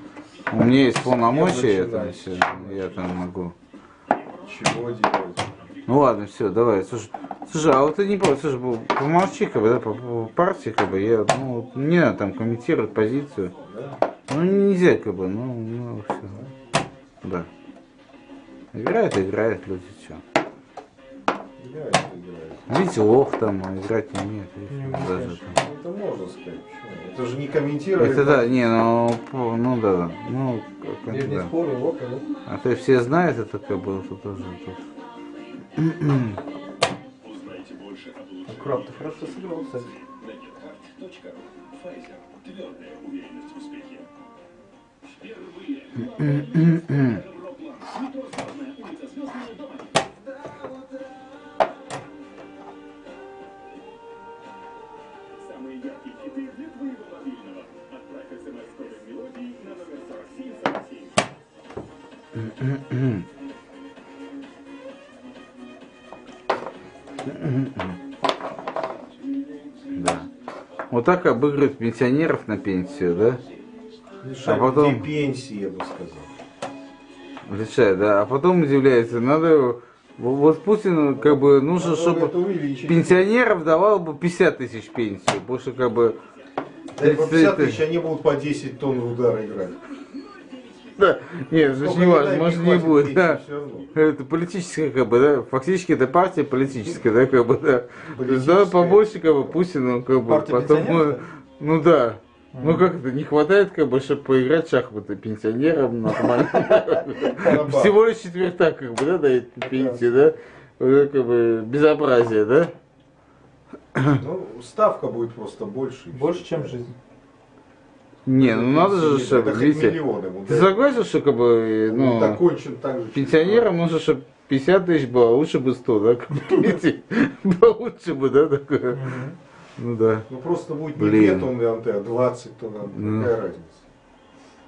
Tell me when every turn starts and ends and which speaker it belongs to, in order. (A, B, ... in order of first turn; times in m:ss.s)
0:00.5-0:03.6 A
0:01.0-0:03.2 B
0:04.4-0:05.7 B
0:05.9-0:13.5 A
0:13.6-0:14.0 B
0:14.3-0:16.4 A
0:17.2-0:17.5 A
0:18.7-0:20.2 A
0:21.6-0:22.7 B
0:22.7-0:25.6 A
0:24.7-0:25.6 C
0:25.5-0:28.6 B
0:28.0-0:31.5 A
0:31.1-0:32.3 C
0:32.5-0:34.8 A
0:35.8-0:36.4 A
0:38.5-0:39.9 C
0:46.0-0:47.2 A
1:02.4-1:03.3 A
1:07.3-1:08.0 A
1:09.9-1:10.3 A
1:10.9-1:13.4 A
1:14.2-1:16.3 B
1:14.4-1:15.1 A
1:17.5-1:26.2 A
1:21.2-1:23.3 B
1:27.0-1:29.8 B
1:27.0-1:27.8 A
1:31.0-1:33.4 A
1:31.7-1:33.9 B
1:33.9-1:52.7 A
1:38.1-1:39.1 B
1:40.2-1:41.2 C
1:42.5-1:43.0 C
1:47.4-1:47.9 B
1:49.6-1:50.2 C
1:54.2-1:56.8 B
1:56.1-1:57.0 C
1:58.3-2:02.4 A
1:58.4-2:00.9 B
2:01.9-2:03.7 B
2:03.1-2:09.0 A
2:08.9-2:09.4 C
2:09.8-2:10.3 A
2:10.3-2:13.8 B
2:11.0-2:11.5 A
2:13.0-2:13.3 A